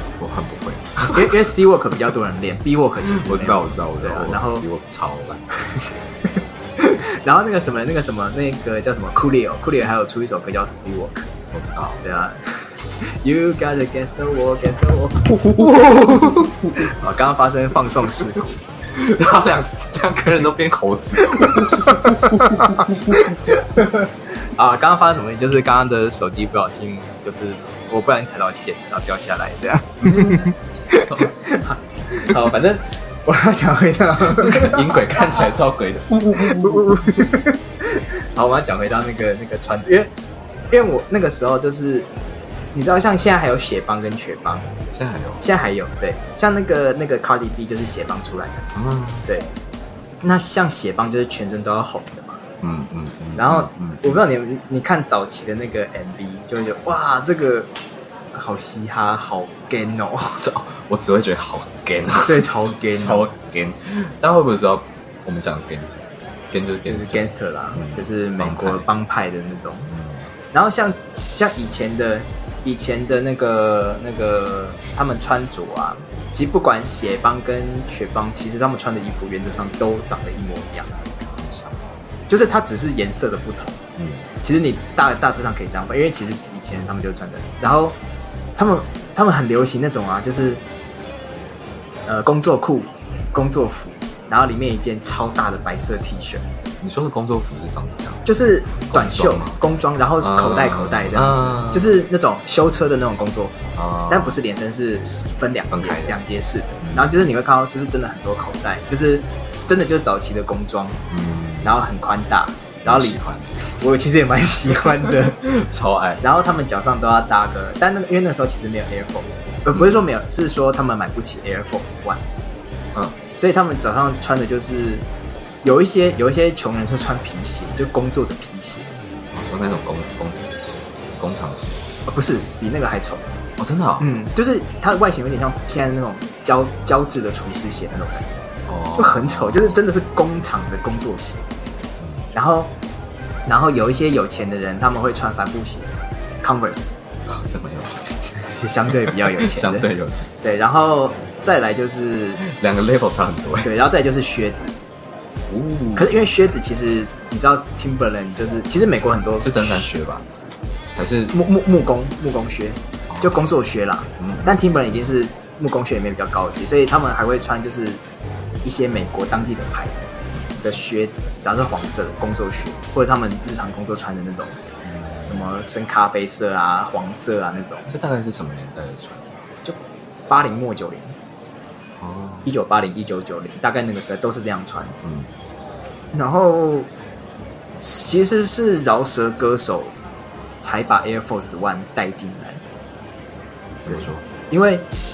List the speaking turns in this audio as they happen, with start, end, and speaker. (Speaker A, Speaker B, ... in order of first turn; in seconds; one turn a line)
Speaker A: 0.2-1.3
Speaker B: 1.1-4.7
Speaker A: 3.1-5.4
Speaker B: 6.8-11.3
Speaker A: 11.5-12.0
Speaker B: 12.0-18.6
Speaker A: 15.7-16.6
Speaker A: 18.9-23.4
Speaker B: 21.9-22.5
Speaker B: 23.8-35.2
Speaker A: 30.0-31.6
Speaker A: 34.3-37.4
Speaker B: 36.4-40.1
Speaker B: 40.7-42.1
Speaker B: 42.7-44.7
Speaker A: 44.9-45.4
Speaker B: 45.4-48.7
Speaker A: 48.8-49.3
Speaker B: 50.2-52.4
Speaker A: 52.6-54.2
Speaker B: 53.4-57.7
Speaker B: 58.3-60.4
Speaker A: 60.4-68.9
Speaker B: 62.2-63.3
Speaker B: 66.9-69.9
Speaker A: 69.9-70.3
Speaker B: 70.5-80.9
Speaker A: 81.3-81.9
Speaker B: 82.3-83.8
Speaker A: 84.0-84.2
Speaker B: 84.4-88.0
Speaker B: 88.6-90.6
Speaker B: 92.1-96.4
Speaker A: 96.8-98.2
Speaker B: 98.3-103.5
Speaker A: 98.9-99.6
Speaker A: 100.2-102.0
Speaker A: 103.8-104.4
Speaker B: 104.1-111.0
Speaker A: 105.7-106.2
Speaker A: 106.8-107.2
Speaker A: 111.1-111.8
Speaker B: 111.6-113.2
Speaker A: 112.8-113.8
Speaker B: 113.8-115.4
Speaker A: 114.8-116.2
Speaker B: 116.2-122.2
Speaker B: 123.3-125.0
Speaker B: 125.6-128.9
Speaker A: 129.3-130.4
Speaker A: 131.2-131.8
Speaker B: 132.1-133.3
Speaker A: 133.6-134.1
Speaker B: 134.0-138.3
Speaker A: 138.7-139.8
Speaker B: 139.0-141.4
Speaker B: 142.3-142.7
Speaker B: 143.5-145.9
Speaker B: 146.4-146.9
Speaker A: 147.3-148.3
Speaker B: 148.5-149.9
Speaker A: 149.0-150.3
Speaker B: 150.4-152.4
Speaker A: 152.4-153.7
Speaker B: 153.6-154.7
Speaker A: 155.5-156.2
Speaker B: 155.9-159.8
Speaker A: 159.4-160.2
Speaker A: 161.0-161.3
Speaker B: 161.3-168.0
Speaker A: 163.1-163.4
Speaker A: 164.2-164.6
Speaker B: 168.6-174.6
Speaker A: 174.8-175.4
Speaker B: 175.2-177.9
Speaker A: 177.9-179.2
Speaker B: 180.3-181.1
Speaker A: 182.0-182.5
Speaker B: 182.5-184.9
Speaker A: 185.0-185.3
Speaker B: 186.1-186.9
Speaker B: 187.8-189.9
Speaker B: 190.6-192.6
Speaker A: 193.9-194.2
Speaker B: 193.9-194.9